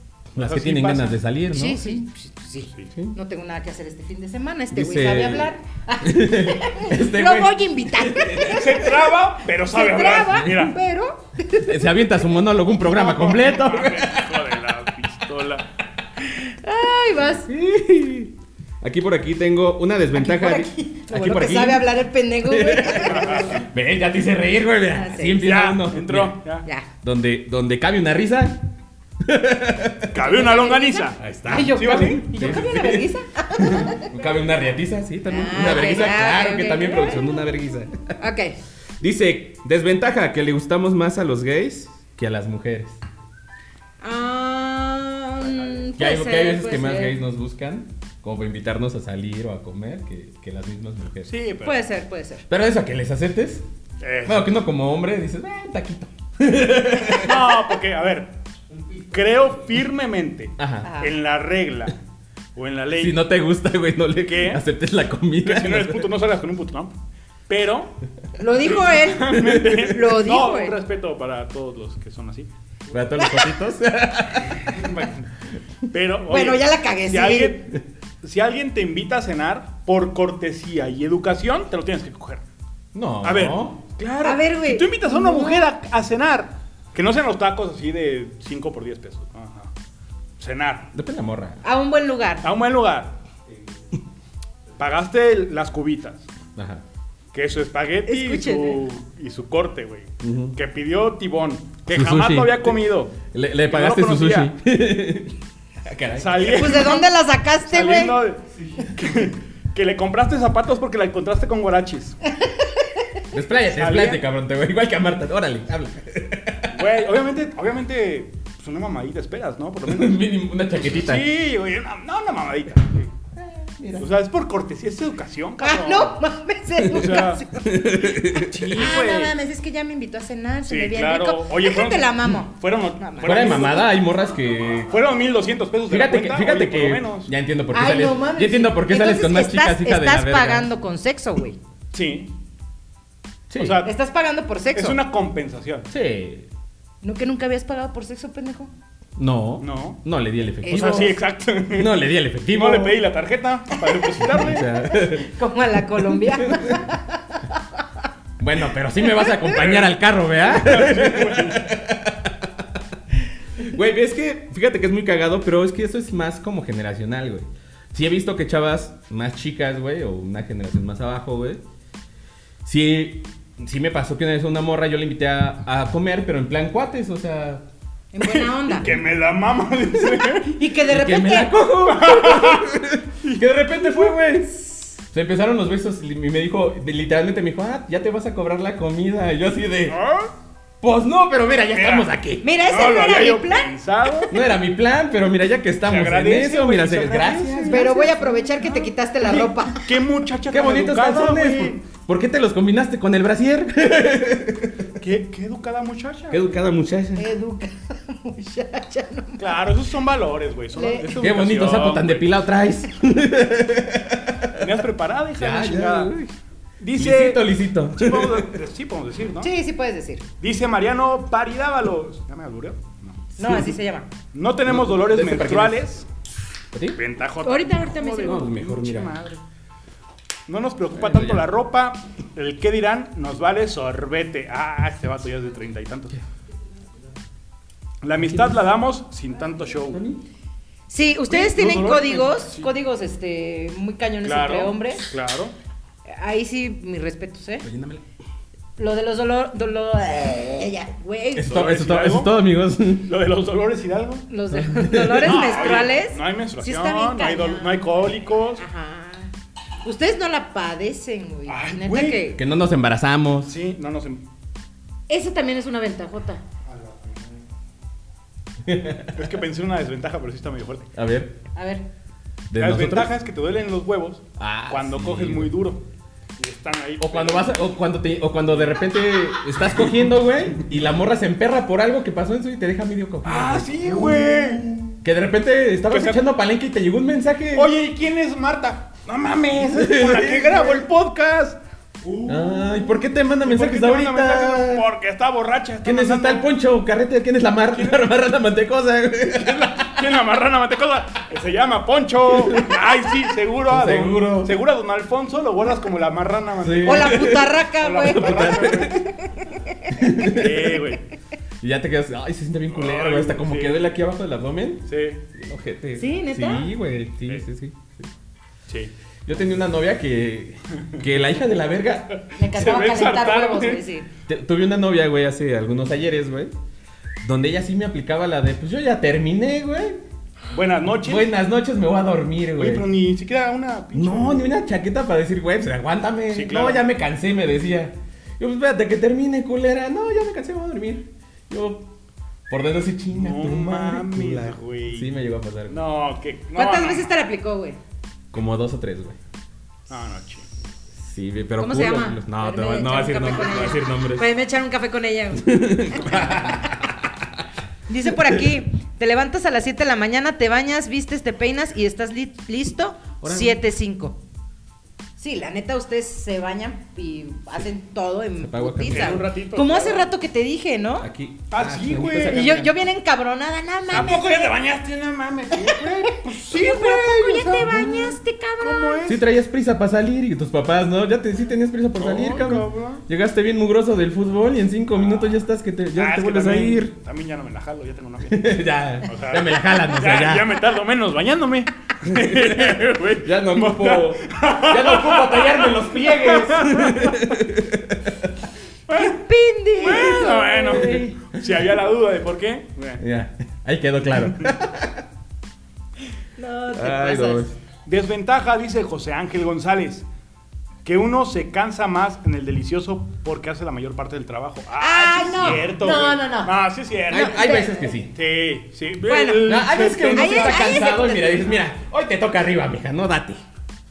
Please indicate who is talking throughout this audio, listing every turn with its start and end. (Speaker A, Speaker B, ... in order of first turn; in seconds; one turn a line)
Speaker A: 0.3-2.0
Speaker B: 0.4-1.2
Speaker C: 1.5-8.9
Speaker A: 4.7-5.5
Speaker A: 6.0-8.9
Speaker B: 8.4-10.8
Speaker C: 9.6-11.8
Speaker A: 11.6-14.4
Speaker B: 12.8-15.7
Speaker C: 16.2-17.5
Speaker A: 17.5-26.4
Speaker C: 20.1-23.6
Speaker B: 23.0-23.6
Speaker C: 24.9-25.5
Speaker B: 25.4-26.6
Speaker A: 27.0-28.7
Speaker A: 29.2-30.2
Speaker B: 30.1-32.3
Speaker C: 30.2-34.1
Speaker A: 31.2-38.2
Speaker C: 35.3-37.2
Speaker C: 38.2-38.6
Speaker A: 39.0-43.0
Speaker C: 44.0-47.2
Speaker A: 46.0-51.3
Speaker B: 51.3-51.8
Speaker C: 51.6-52.5
Speaker A: 52.5-53.6
Speaker B: 54.0-54.5
Speaker A: 54.2-57.5
Speaker B: 57.2-58.3
Speaker B: 59.1-62.0
Speaker A: 60.6-60.9
Speaker C: 60.8-61.1
Speaker B: 62.6-63.2
Speaker A: 63.0-66.1
Speaker B: 64.2-64.6
Speaker B: 65.4-66.9
Speaker B: 67.5-68.0
Speaker C: 68.4-70.8
Speaker B: 68.6-72.5
Speaker A: 69.3-69.8
Speaker A: 72.9-74.7
Speaker C: 73.2-73.5
Speaker B: 74.7-75.3
Speaker B: 75.9-82.4
Speaker C: 76.3-77.6
Speaker A: 82.9-83.8
Speaker B: 83.2-89.7
Speaker C: 84.2-85.7
Speaker B: 90.4-90.9
Speaker A: 90.9-91.6
Speaker C: 91.6-92.5
Speaker B: 92.4-93.2
Speaker B: 94.8-96.3
Speaker A: 96.6-96.8
Speaker B: 97.3-103.2
Speaker C: 98.1-98.8
Speaker A: 100.2-100.6
Speaker A: 101.9-102.8
Speaker A: 103.3-106.9
Speaker B: 103.7-104.5
Speaker B: 106.1-107.1
Speaker C: 106.5-108.2
Speaker B: 107.6-112.2
Speaker C: 112.3-113.2
Speaker A: 113.3-116.8
Speaker B: 113.8-114.2
Speaker B: 116.7-120.2
Speaker A: 119.9-121.3
Speaker B: 120.8-123.1
Speaker A: 123.4-124.1
Speaker B: 124.0-126.2
Speaker C: 125.6-128.0
Speaker A: 126.8-128.9
Speaker B: 126.9-127.4
Speaker B: 128.4-129.3
Speaker C: 128.8-133.8
Speaker B: 130.7-133.9
Speaker A: 133.2-134.9
Speaker B: 134.9-137.3
Speaker A: 135.9-140.7
Speaker C: 137.7-141.6
Speaker B: 141.9-142.3
Speaker A: 143.5-143.8
Speaker B: 143.5-143.9
Speaker C: 143.8-145.0
Speaker B: 144.7-145.9
Speaker A: 145.9-146.5
Speaker C: 147.0-148.7
Speaker A: 149.2-151.2
Speaker B: 149.6-150.0
Speaker C: 150.6-151.1
Speaker B: 150.7-154.7
Speaker A: 151.7-153.0
Speaker C: 153.7-154.1
Speaker A: 154.2-155.3
Speaker C: 154.9-157.6
Speaker A: 156.0-156.9
Speaker A: 158.4-162.7
Speaker B: 159.6-161.7
Speaker A: 163.6-171.6
Speaker A: 172.6-177.7
Speaker C: 178.1-178.9
Speaker B: 178.2-180.6
Speaker A: 178.8-179.1
Speaker C: 180.4-181.5
Speaker A: 180.9-190.0
Speaker B: 181.8-184.1
Speaker B: 189.9-190.3
Speaker A: 190.8-192.4
Speaker B: 191.7-192.1
Speaker C: 192.4-194.3
Speaker B: 192.7-194.3
Speaker A: 194.3-198.0
Speaker B: 195.8-201.8
Speaker C: 197.7-199.9
Speaker A: 200.5-204.9
Speaker B: 205.0-206.5
Speaker A: 206.3-207.3
Speaker C: 207.2-209.5
Speaker B: 209.4-212.3
Speaker C: 210.7-211.3
Speaker A: 211.2-214.7
Speaker B: 214.6-216.1
Speaker A: 215.4-216.3
Speaker B: 216.8-219.5
Speaker A: 216.9-218.6
Speaker C: 219.4-220.2
Speaker B: 220.4-223.2
Speaker C: 223.4-224.1
Speaker A: 223.4-223.8
Speaker B: 224.3-226.1
Speaker A: 224.6-225.8
Speaker A: 226.7-227.0
Speaker B: 226.9-229.4
Speaker C: 227.4-228.5
Speaker A: 228.2-229.2
Speaker B: 230.5-236.2
Speaker A: 230.9-231.4
Speaker B: 238.0-240.0
Speaker A: 238.2-238.6
Speaker A: 239.9-240.2
Speaker C: 240.9-245.1
Speaker B: 241.3-242.8
Speaker B: 244.2-245.5
Speaker C: 246.1-247.7
Speaker A: 247.6-248.0
Speaker C: 248.8-251.5
Speaker A: 251.4-253.1
Speaker B: 251.4-252.3
Speaker B: 253.1-254.3
Speaker C: 254.3-257.9
Speaker A: 254.5-255.4
Speaker B: 255.2-258.6
Speaker C: 258.6-259.3
Speaker C: 259.8-262.4
Speaker B: 261.5-262.3
Speaker A: 262.4-263.6
Speaker B: 263.4-264.2
Speaker C: 265.1-266.4
Speaker A: 268.6-269.2
Speaker B: 269.1-270.9
Speaker A: 270.9-271.4
Speaker C: 271.6-271.9
Speaker A: 272.5-273.1
Speaker B: 272.6-275.8
Speaker A: 274.4-275.6
Speaker B: 276.4-277.6
Speaker A: 277.0-287.7
Speaker B: 283.2-284.9
Speaker B: 285.9-286.2
Speaker B: 287.5-296.5
Speaker A: 289.6-290.8
Speaker A: 292.2-294.9
Speaker A: 295.8-300.1
Speaker B: 297.7-298.0
Speaker B: 299.4-309.0
Speaker A: 302.4-302.7
Speaker A: 303.7-304.5
Speaker A: 306.6-309.0
Speaker C: 306.9-309.9
Speaker A: 309.9-310.8
Speaker B: 310.2-311.1
Speaker A: 311.6-318.1
Speaker B: 312.7-313.8
Speaker B: 314.9-315.2
Speaker C: 316.0-316.7
Speaker A: 319.3-322.1
Speaker B: 322.1-323.9
Speaker C: 322.4-324.1
Speaker A: 324.3-326.5
Speaker A: 327.2-330.0
Speaker B: 330.5-331.3
Speaker A: 331.0-332.9
Speaker B: 332.6-334.6
Speaker A: 333.9-341.9
Speaker B: 336.3-336.8
Speaker A: 342.5-345.8
Speaker B: 343.1-345.1
Speaker B: 345.7-347.1
Speaker C: 346.6-347.8
Speaker A: 348.3-349.2
Speaker B: 349.9-350.5
Speaker A: 350.9-354.3
Speaker C: 351.6-356.7
Speaker A: 355.4-357.3
Speaker C: 357.9-364.2
Speaker A: 363.2-363.6
Speaker C: 365.2-371.1
Speaker A: 368.4-369.2
Speaker B: 368.9-370.1
Speaker A: 371.0-372.8
Speaker B: 371.5-372.6
Speaker C: 372.3-374.5
Speaker B: 373.9-377.9
Speaker C: 375.6-379.0
Speaker A: 377.5-378.1
Speaker B: 378.6-379.3
Speaker A: 379.1-386.9
Speaker B: 381.9-383.0
Speaker B: 385.9-397.2
Speaker A: 388.3-390.6
Speaker A: 392.1-398.3
Speaker B: 398.9-399.2
Speaker C: 398.9-401.1
Speaker B: 399.8-403.0
Speaker A: 403.0-405.0
Speaker C: 406.4-407.4
Speaker A: 406.7-407.6
Speaker B: 407.9-410.1
Speaker B: 410.9-420.8
Speaker C: 414.8-416.6
Speaker A: 417.1-418.1
Speaker C: 417.1-417.8
Speaker C: 419.1-419.6
Speaker A: 419.4-423.4
Speaker C: 420.1-421.6